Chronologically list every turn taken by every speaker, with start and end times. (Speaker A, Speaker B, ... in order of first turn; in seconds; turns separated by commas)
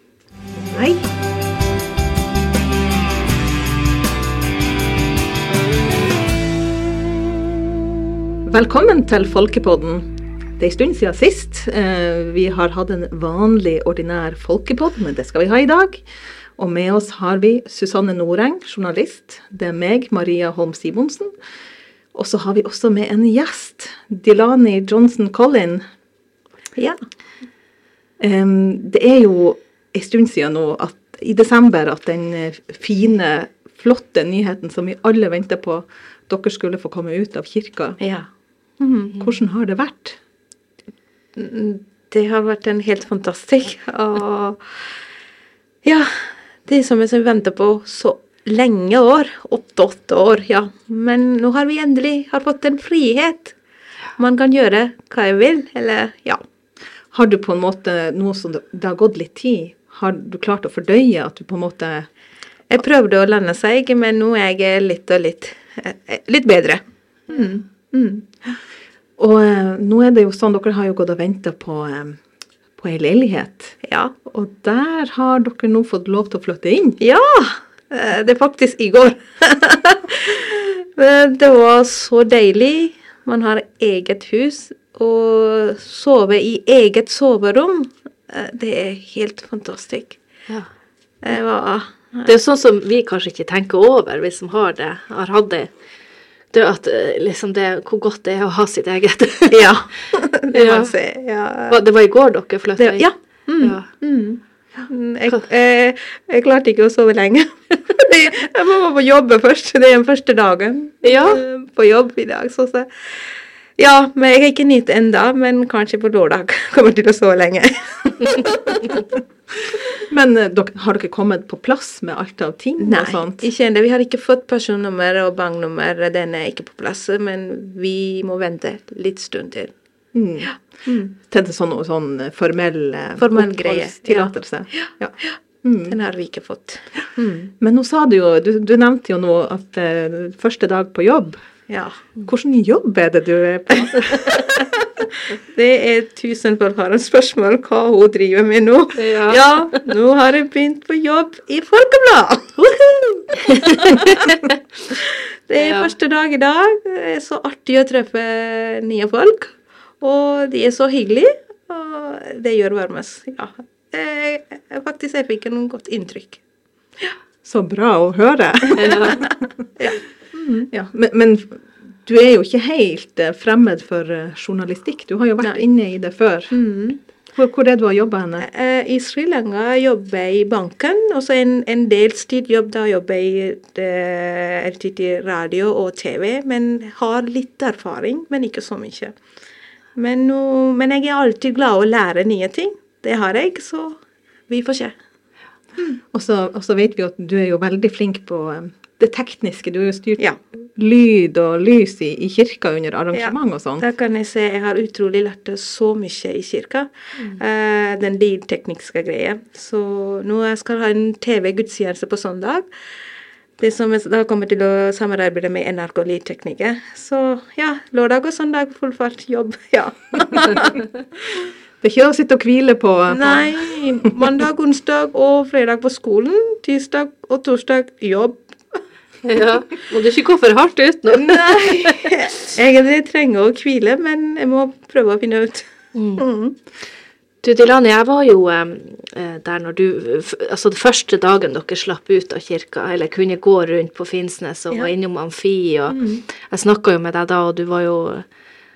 Speaker A: 0.5-1.0, Speaker A: 8.4-10.0, Speaker A: 10.6-16.0, Speaker A: 16.6-21.3, Speaker A: 22.1-25.8, Speaker A: 28.2-38.0, Speaker B: 38.0-38.3, Speaker B: 38.8-39.1, Speaker A: 39.2-40.2, Speaker B: 41.4-44.9, Speaker B: 45.8-53.5, Speaker B: 54.2-56.4, Speaker A: 57.1-62.1, Speaker B: 62.7-68.3, Speaker A: 69.2-72.2, Speaker A: 72.8-77.0, Speaker B: 73.8-74.2, Speaker B: 77.0-90.2, Speaker B: 91.2-92.3, Speaker C: 92.2-95.7, Speaker C: 96.5-99.7, Speaker B: 99.5-101.8, Speaker C: 100.5-100.9, Speaker C: 101.7-103.1, Speaker B: 102.8-118.9, Speaker C: 103.6-103.9, Speaker C: 111.0-111.4, Speaker A: 120.1-123.4, Speaker B: 122.8-129.7, Speaker A: 130.1-130.6, Speaker B: 130.8-131.1, Speaker A: 131.1-136.0, Speaker B: 133.2-135.3, Speaker B: 135.9-137.5, Speaker A: 137.6-141.4, Speaker B: 141.7-142.0, Speaker A: 142.2-144.6, Speaker B: 144.2-144.6, Speaker B: 145.4-152.7, Speaker C: 148.9-149.8, Speaker C: 152.6-154.6, Speaker B: 153.7-154.3, Speaker B: 155.0-166.4, Speaker C: 155.6-155.9, Speaker A: 167.4-169.3, Speaker C: 168.7-169.3, Speaker B: 168.9-170.7, Speaker A: 170.7-176.6, Speaker B: 176.5-177.0, Speaker A: 177.3-178.5, Speaker B: 178.4-189.2, Speaker B: 189.9-194.9, Speaker A: 195.8-203.8, Speaker B: 203.1-212.7, Speaker B: 213.6-220.7, Speaker A: 221.8-224.1, Speaker B: 223.1-228.8, Speaker C: 229.2-232.3, Speaker B: 231.2-236.6, Speaker C: 235.9-236.2, Speaker C: 237.4-248.2, Speaker B: 245.9-246.2